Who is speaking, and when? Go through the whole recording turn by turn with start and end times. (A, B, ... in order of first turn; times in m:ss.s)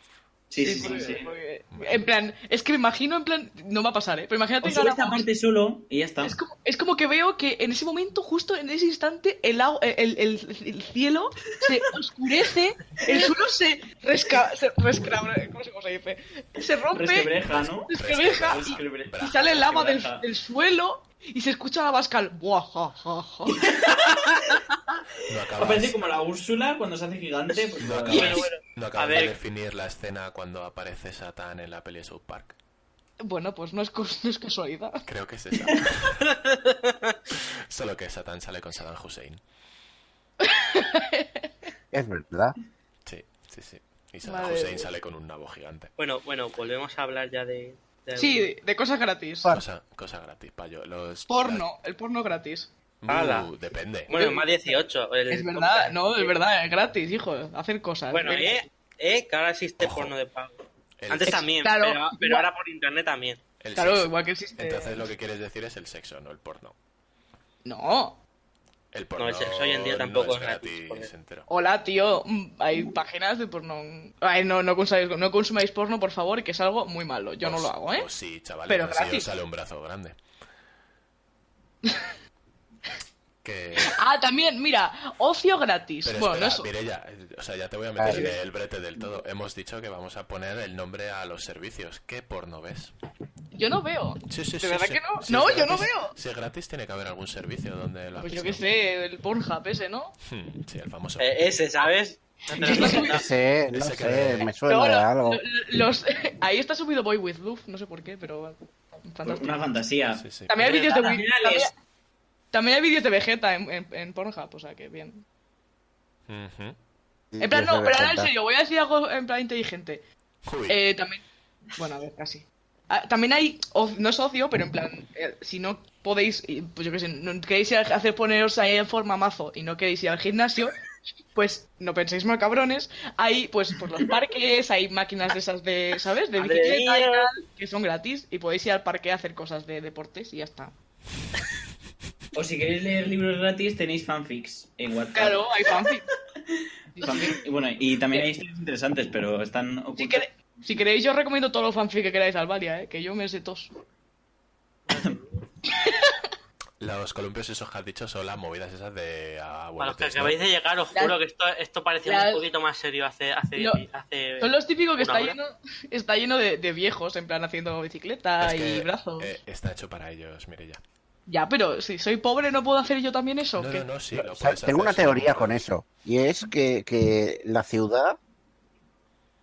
0:00.5-0:01.3 A
0:00.6-0:05.2 B
0:01.7-0:02.0 C
0:04.6-0:06.4 A
0:06.2-0:17.3 B
0:16.9-0:17.9 A
0:17.4-0:19.5 C
0:17.9-0:23.7 B
0:18.4-0:20.2 A
0:23.6-0:24.2 A
0:25.3-0:26.0 C
0:25.5-0:28.4 A
0:27.8-0:32.5 C
0:28.1-0:28.5 B
0:28.1-0:29.3 D
0:33.2-0:35.0 B
0:35.0-0:36.3 C
0:36.3-0:37.1 D
0:37.3-0:39.4 C
0:40.4-0:41.5 B
0:41.9-0:42.6 E
0:43.0-0:45.9 C
0:44.2-0:44.9 B
0:46.0-0:48.5 D
0:48.2-0:49.5 B
0:49.5-0:51.7 C
0:51.3-0:52.7 B
0:53.0-0:54.2 C
0:53.1-0:53.5 D
0:54.1-0:56.4 D
0:54.1-0:54.7 B
0:55.3-0:58.6 B
0:58.1-1:03.4 D
0:59.8-1:00.1 C
1:01.0-1:01.4 C
1:01.2-1:02.5 B
1:03.6-1:06.7 C
1:03.7-1:05.1 B
1:07.6-1:08.2 B
1:08.9-1:11.5 C
1:09.2-1:11.1 D
1:11.5-1:18.1 B
1:17.4-1:20.2 C
1:18.7-1:19.3 B
1:21.8-1:22.1 B
1:23.4-1:24.0 C
1:23.8-1:26.7 B
1:26.0-1:32.9 C
1:28.0-1:28.2 E
1:28.1-1:28.4 A
1:33.5-1:36.2 B
1:34.3-1:38.6 C
1:38.2-1:40.2 B
1:40.3-1:41.4 C
1:41.2-1:43.3 D
1:42.5-1:43.0 A
1:42.6-1:43.2 B
1:42.9-1:45.4 E
1:43.7-1:44.5 C
1:44.7-1:49.6 B
1:49.2-1:51.7 A
1:50.2-1:50.5 C
1:50.5-1:51.7 B
1:52.5-1:55.2 B
1:56.3-1:56.8 C
1:57.3-1:58.3 E
1:57.4-2:00.0 B
2:00.4-2:00.8 C
2:00.7-2:01.2 B
2:01.8-2:10.8 B
2:11.3-2:20.7 B
2:16.4-2:17.3 D
2:22.3-2:25.4 A
2:25.1-2:26.0 B
2:27.0-2:27.4 B
2:27.0-2:30.2 A
2:30.0-2:33.7 B
2:34.9-2:35.4 D
2:35.7-2:36.3 B
2:36.8-2:40.4 C
2:39.8-2:45.4 D
2:42.0-2:42.4 B
2:43.6-2:43.8 B
2:44.4-2:49.3 B
2:48.4-2:50.8 C
2:51.3-2:53.9 B
2:53.6-2:55.6 C
2:54.1-2:58.2 E